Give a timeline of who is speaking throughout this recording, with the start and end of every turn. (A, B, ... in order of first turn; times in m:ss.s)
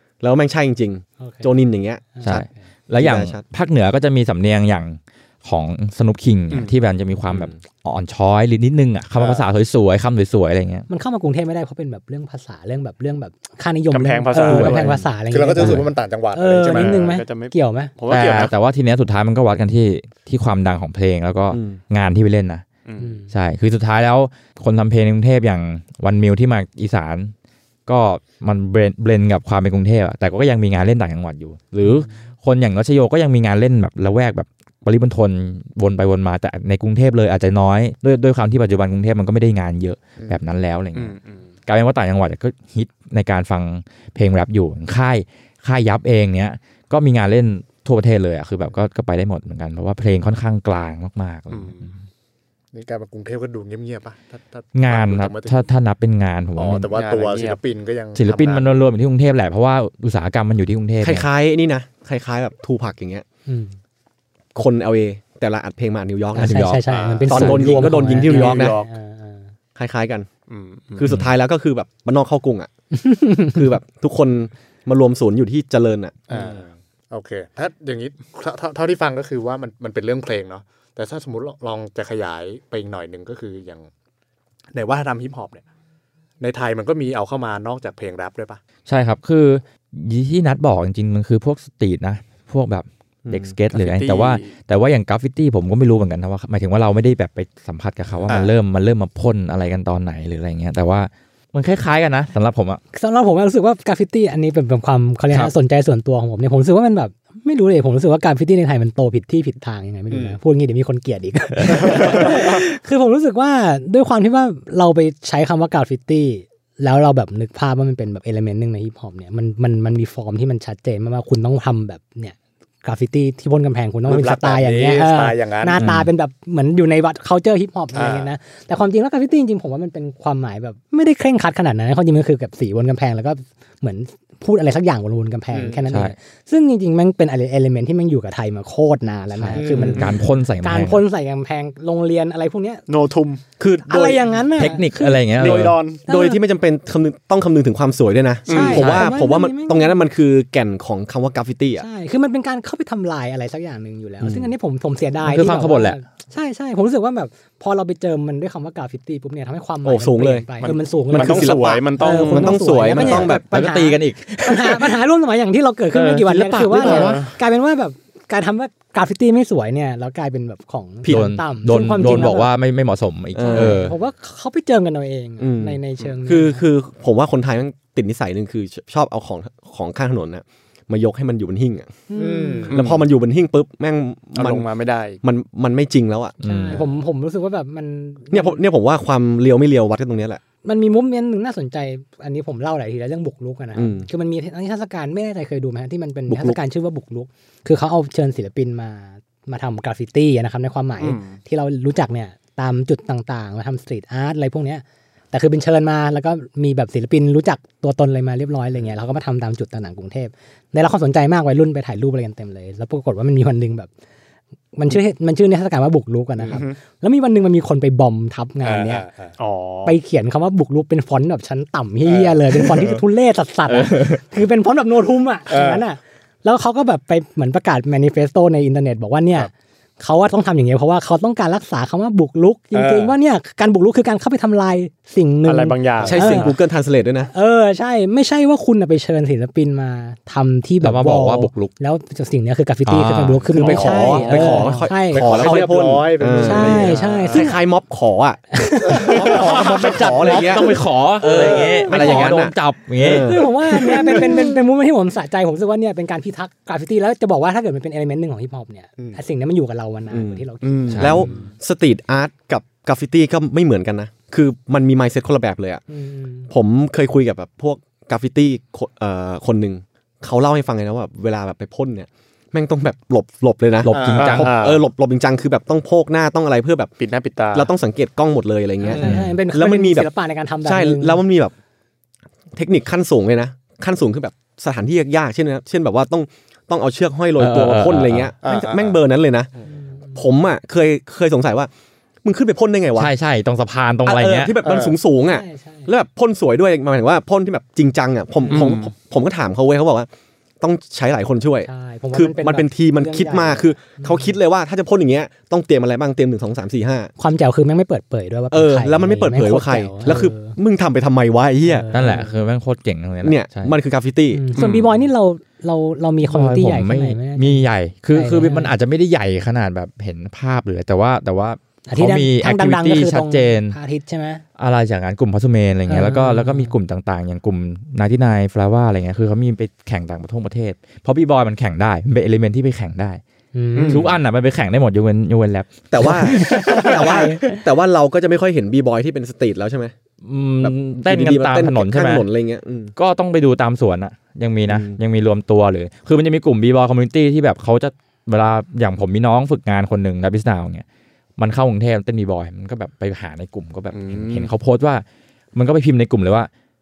0:00.2-0:02.3 A
0:01.2-0:01.5 B
0:02.2-0:02.4 B
0:02.2-0:10.9 C
0:03.0-0:03.4 A
0:10.9-0:17.9 B
0:13.9-0:15.0 D
0:14.4-0:14.9 C
0:15.3-0:17.0 E
0:15.6-0:15.8 C
0:16.7-0:18.5 D
0:18.1-0:22.6 C
0:21.5-0:21.8 A
0:22.9-0:23.2 D
0:23.0-0:23.3 B
0:23.3-0:27.3 C
0:27.9-0:52.0 C
0:41.0-0:41.5 D
0:51.5-0:51.9 D
0:52.7-0:55.6 E
0:54.8-0:56.9 C
0:56.6-0:58.7 E
0:56.9-0:57.6 D
0:58.2-1:01.3 C
1:01.0-1:03.2 A
1:03.5-1:03.8 B
1:04.6-1:06.7 A
1:06.4-1:09.5 B
1:06.4-1:07.6 C
1:06.9-1:07.5 E
1:07.3-1:08.8 A
1:07.5-1:08.9 D
1:09.8-1:10.3 A
1:10.5-1:11.1 D
1:11.0-1:12.7 A
1:12.9-1:13.6 B
1:13.5-1:16.2 A
1:16.3-1:16.6 D
1:16.3-1:23.9 E
1:24.7-1:25.6 E
1:26.4-1:28.6 E
1:28.9-1:42.8 C
1:33.2-1:33.5 A
1:33.7-1:34.5 D
1:38.3-1:38.5 E
1:42.9-2:22.8 B
1:50.1-1:50.4 E
2:04.1-2:05.9 E
2:05.8-2:06.1 C
2:07.9-2:08.3 E
2:15.5-2:15.8 E
2:15.9-2:16.2 C
2:19.4-2:21.0 C
2:19.5-2:20.1 E
2:22.9-2:23.4 D
2:23.6-2:24.3 A
2:23.9-2:26.4 B
2:24.6-2:25.8 C
2:25.4-2:26.0 D
2:25.4-2:31.9 A
2:28.5-2:29.1 D
2:28.5-2:30.0 B
2:28.8-2:29.0 C
2:31.8-2:52.5 B
2:34.2-2:34.5 A
2:35.2-2:36.0 C
2:39.8-2:40.5 A
2:40.6-2:42.6 D
2:41.1-2:43.4 A
2:42.9-2:45.0 C
2:45.9-2:47.3 C
2:46.8-2:47.4 D
2:51.0-2:51.3 A
2:51.0-2:54.0 C
2:53.4-2:53.8 A
2:53.4-2:56.7 B
2:55.4-3:01.9 A
3:02.1-3:02.7 B
3:02.1-3:02.8 E
3:02.6-3:03.0 D
3:02.7-3:04.7 A
3:04.4-3:05.2 D
3:05.2-3:06.4 A
3:06.4-3:06.8 C
3:06.4-3:08.6 B
3:08.3-3:10.4 A
3:10.6-3:33.9 B
3:13.8-3:14.1 A
3:16.3-3:16.6 A
3:21.0-3:21.4 D
3:34.8-3:39.1 B
3:36.5-3:36.8 D
3:38.6-3:39.4 E
3:39.4-3:40.0 D
3:39.8-3:56.5 B
3:42.0-3:42.8 E
3:43.7-3:44.2 C
3:45.5-3:45.8 E
3:52.7-3:53.1 E
3:55.4-3:56.6 D
3:56.0-3:57.3 A
3:57.3-4:05.6 B
4:00.8-4:01.7 C
4:02.9-4:04.8 C
4:03.5-4:14.2 A
4:03.6-4:04.4 D
4:05.1-4:07.4 E
4:06.4-4:07.6 B
4:07.0-4:07.3 D
4:08.5-4:09.2 B
4:08.9-4:14.4 C
4:08.9-4:10.8 E
4:11.5-4:12.3 B
4:13.1-4:21.5 B
4:20.1-4:25.8 A
4:20.9-4:21.3 C
4:25.9-4:26.5 B
4:26.5-4:36.9 A
4:33.8-4:34.6 C
4:33.9-4:34.5 E
4:34.1-4:34.8 D
4:37.0-4:37.7 D
4:37.5-4:40.1 A
4:38.8-4:41.2 B
4:39.0-4:39.3 C
4:40.6-4:41.5 A
4:42.5-4:49.5 A
4:47.4-4:48.3 C
4:48.4-4:49.0 E
4:49.6-4:50.2 B
4:50.1-4:51.7 A
4:52.2-4:53.1 A
4:53.0-4:54.6 C
4:54.1-5:00.1 A
4:54.6-4:55.0 E
4:55.2-4:55.9 B
4:58.5-4:58.9 D
5:00.6-5:07.1 A
5:01.6-5:04.3 B
5:07.2-5:10.6 B
5:08.5-5:11.9 A
5:11.6-5:12.3 B
5:11.9-5:13.8 C
5:13.2-5:14.4 A
5:14.3-5:18.7 B
5:14.6-5:15.0 D
5:16.2-5:23.8 C
5:21.9-5:24.4 B
5:24.6-5:33.2 C
5:25.9-5:26.7 B
5:33.6-5:34.1 B
5:33.8-5:34.2 D
5:33.8-5:37.1 C
5:35.9-5:39.9 A
5:36.1-5:37.6 B
5:40.2-5:42.2 C
5:40.6-5:42.9 A
5:43.0-5:50.8 C
5:44.7-5:45.0 A
5:51.4-5:56.5 C
5:53.9-5:54.5 D